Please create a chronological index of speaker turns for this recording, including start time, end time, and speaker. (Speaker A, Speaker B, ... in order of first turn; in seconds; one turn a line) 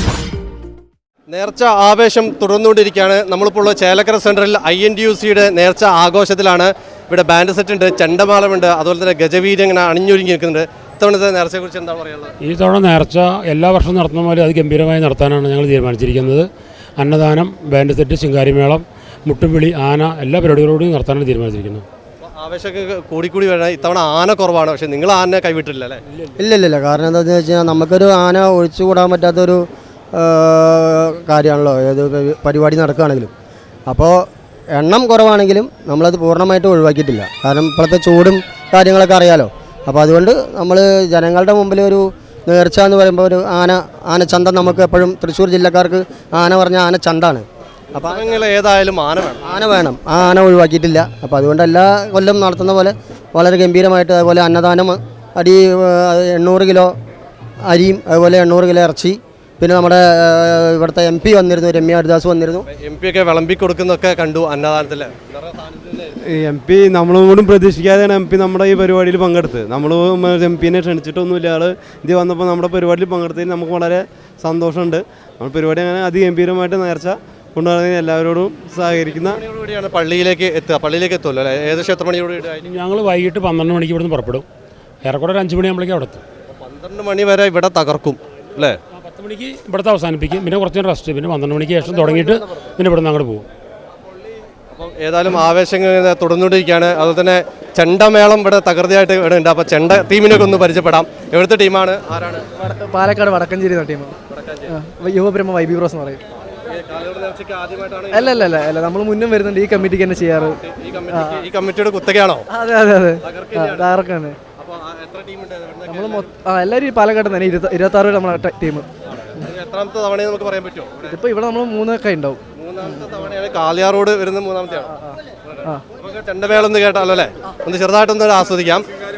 Speaker A: 1.3-12.3
Speaker B: 12.4-21.9
Speaker A: 22.2-26.0
Speaker C: 26.4-33.3
Speaker C: 33.9-48.3
Speaker A: 48.0-49.4
Speaker C: 49.5-56.9
Speaker C: 57.6-62.7
Speaker A: 62.7-66.2
Speaker D: 66.2-79.4
Speaker A: 79.1-82.7
Speaker B: 82.7-84.5
Speaker B: 85.0-86.2
Speaker A: 86.5-88.8
Speaker B: 89.0-93.5
Speaker A: 94.7-102.5
Speaker E: 102.6-104.2
Speaker A: 104.3-104.7
Speaker E: 104.7-106.2
Speaker A: 106.7-108.4
Speaker E: 108.1-110.6
Speaker A: 110.6-112.5
Speaker E: 111.1-111.4
Speaker E: 112.5-114.4
Speaker A: 113.2-114.0
Speaker A: 114.6-116.3
Speaker E: 115.9-118.9
Speaker A: 119.2-121.2
Speaker E: 121.1-122.4
Speaker A: 122.6-125.0
Speaker A: 126.0-128.8